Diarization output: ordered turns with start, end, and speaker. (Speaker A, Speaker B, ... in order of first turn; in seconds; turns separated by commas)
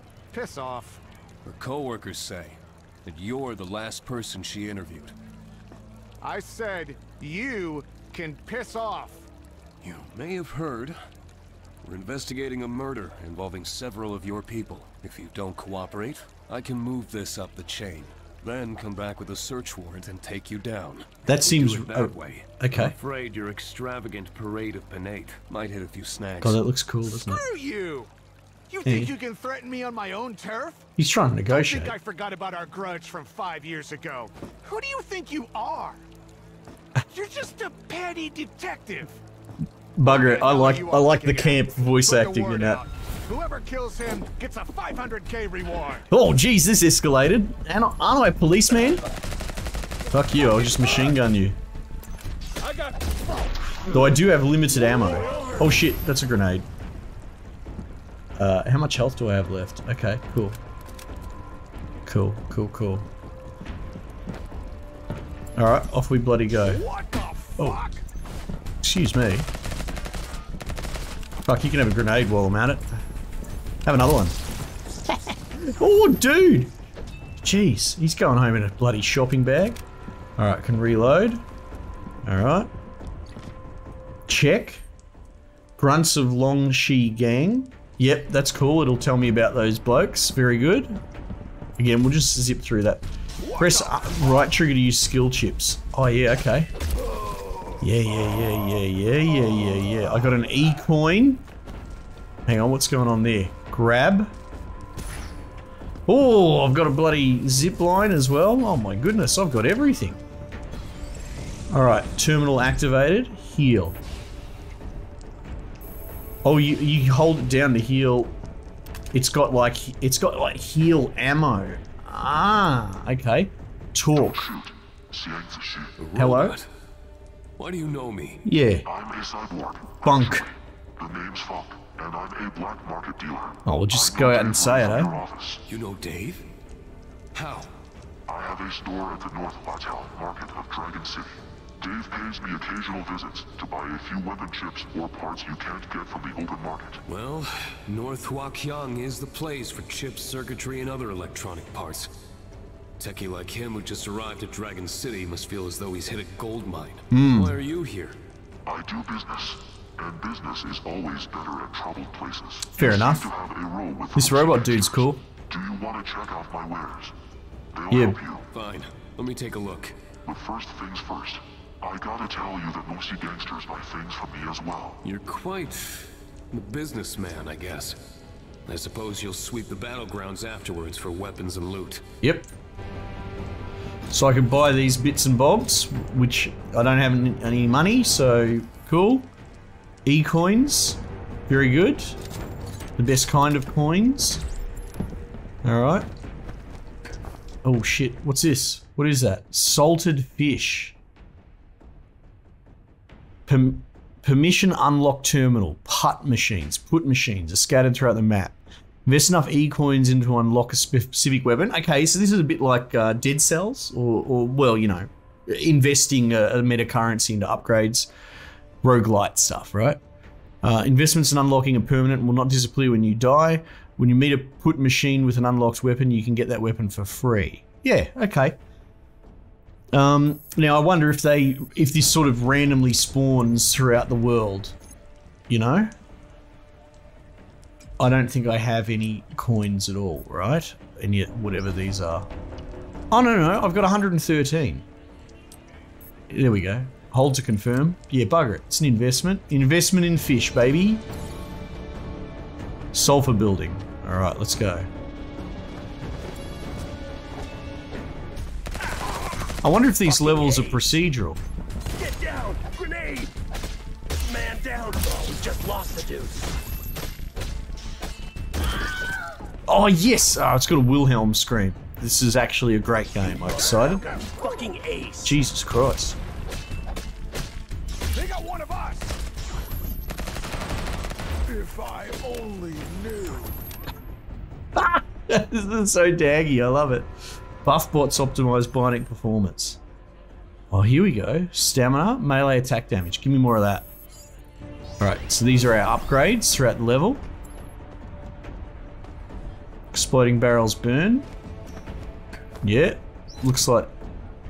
Speaker A: 0.3-1.0, Speaker B: 1.4-5.1, Speaker A: 6.2-9.3, Speaker B: 9.8-11.0, Speaker B: 11.8-26.6, Speaker C: 21.2-22.9, Speaker C: 26.4-27.4, Speaker A: 27.3-28.1, Speaker A: 28.7-30.9, Speaker C: 28.8-29.1, Speaker C: 30.9-31.9, Speaker A: 31.5-36.0, Speaker A: 37.1-39.2, Speaker C: 40.0-42.8, Speaker A: 40.0-46.1, Speaker C: 46.1-49.0, Speaker C: 50.1-51.6, Speaker A: 50.4-51.1, Speaker A: 52.6-54.1, Speaker C: 53.9-56.7, Speaker A: 54.7-55.7, Speaker C: 58.4-60.6, Speaker C: 62.0-63.1, Speaker C: 65.5-66.8, Speaker A: 66.6-68.0, Speaker C: 68.8-69.5, Speaker C: 71.4-73.0, Speaker C: 73.8-74.4, Speaker C: 75.1-76.7, Speaker C: 77.4-79.8, Speaker C: 80.4-81.4, Speaker C: 82.2-82.7, Speaker C: 84.3-84.8, Speaker C: 85.8-91.0, Speaker C: 91.8-96.7, Speaker A: 93.4-94.5, Speaker A: 97.0-97.8, Speaker C: 97.8-101.4, Speaker C: 102.5-104.3, Speaker C: 106.1-110.2, Speaker C: 111.7-114.0, Speaker C: 116.4-118.3, Speaker C: 119.1-124.5, Speaker D: 124.1-126.0, Speaker B: 126.0-126.7, Speaker C: 126.2-126.6, Speaker B: 127.6-128.4, Speaker C: 128.4-128.8, Speaker D: 128.8-130.5, Speaker C: 130.0-130.4, Speaker D: 131.0-135.6, Speaker C: 133.6-135.2, Speaker B: 135.7-136.4, Speaker B: 137.3-137.7, Speaker D: 138.3-147.0, Speaker B: 147.1-152.1, Speaker B: 153.0-158.2, Speaker C: 157.1-157.6, Speaker D: 158.7-167.1, Speaker C: 162.8-163.3, Speaker C: 164.1-165.2, Speaker D: 167.7-168.4, Speaker C: 167.9-168.2, Speaker B: 168.5-170.0, Speaker D: 170.2-175.0, Speaker B: 175.0-178.0, Speaker B: 178.7-182.0, Speaker C: 182.2-182.5, Speaker C: 184.1-189.3, Speaker C: 190.0-192.2, Speaker C: 193.0-194.4, Speaker C: 195.6-196.1, Speaker C: 197.6-200.9, Speaker C: 203.5-218.1, Speaker C: 218.8-220.0, Speaker C: 220.6-228.6, Speaker C: 229.9-234.8, Speaker C: 235.5-235.9, Speaker C: 238.0-242.3, Speaker C: 243.1-244.8, Speaker C: 246.3-251.0, Speaker C: 252.9-254.9, Speaker C: 259.6-261.4, Speaker E: 260.2-260.8, Speaker E: 261.9-263.3, Speaker E: 264.2-266.4, Speaker C: 269.7-274.0, Speaker A: 273.5-274.7, Speaker E: 274.4-275.3, Speaker C: 275.2-276.2, Speaker A: 278.1-279.2, Speaker A: 281.5-283.6, Speaker C: 284.7-289.8, Speaker C: 290.7-293.9, Speaker C: 295.0-297.2, Speaker C: 299.9-301.3, Speaker C: 302.6-303.9